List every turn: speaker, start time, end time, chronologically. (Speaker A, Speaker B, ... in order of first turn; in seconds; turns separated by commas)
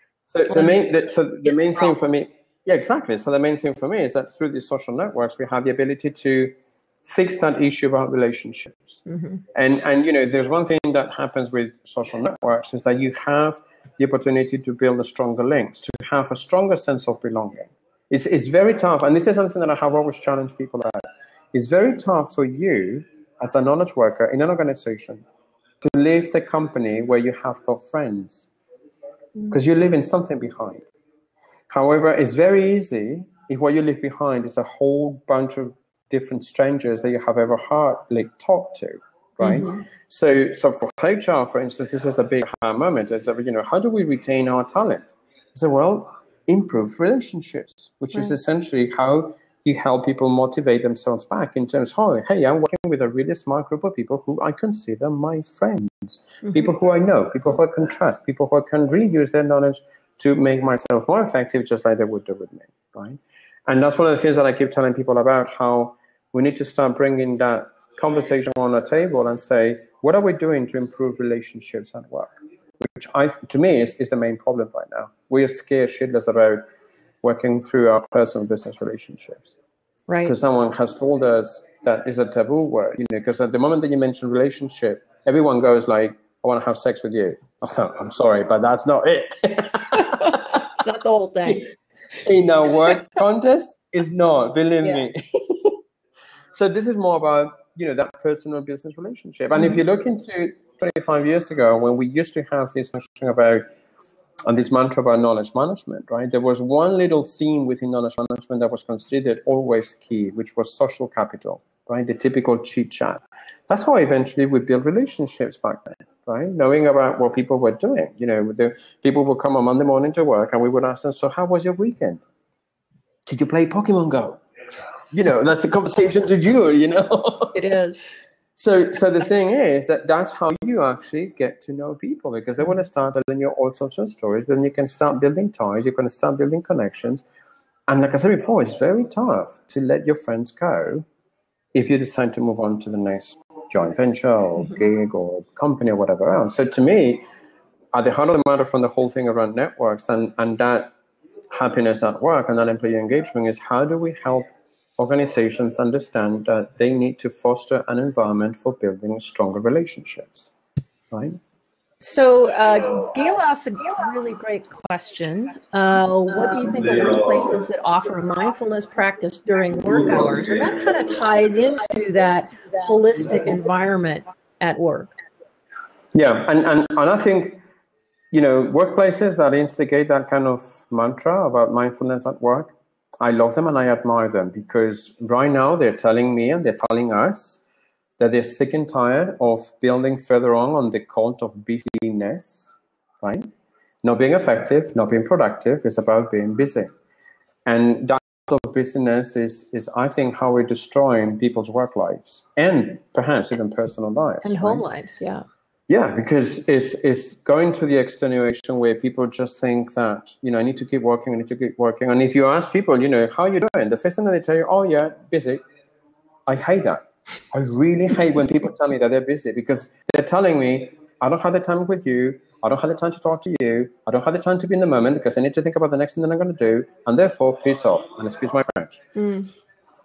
Speaker A: 0.3-9.0, Speaker B: 0.5-0.8, Speaker B: 1.4-1.9, Speaker B: 9.1-9.4, Speaker A: 9.5-25.2, Speaker A: 25.8-28.5, Speaker A: 29.5-30.9, Speaker A: 31.7-76.6, Speaker B: 39.4-39.8, Speaker A: 77.2-79.5, Speaker B: 80.1-80.3, Speaker A: 80.2-90.5, Speaker B: 90.0-91.7, Speaker A: 92.2-95.8, Speaker A: 96.5-103.6, Speaker A: 104.5-122.2, Speaker A: 123.2-124.4, Speaker A: 125.1-127.5, Speaker B: 127.5-128.1, Speaker A: 128.6-137.2, Speaker A: 137.9-141.1, Speaker A: 141.7-147.2, Speaker A: 147.9-150.9, Speaker A: 151.5-160.5, Speaker A: 161.1-161.4, Speaker B: 162.0-175.1, Speaker A: 176.1-177.6, Speaker A: 178.3-187.6, Speaker A: 188.2-193.4, Speaker A: 194.0-196.9, Speaker A: 197.7-204.8, Speaker B: 204.4-205.4, Speaker A: 205.9-215.6, Speaker A: 216.4-229.0, Speaker B: 229.1-229.5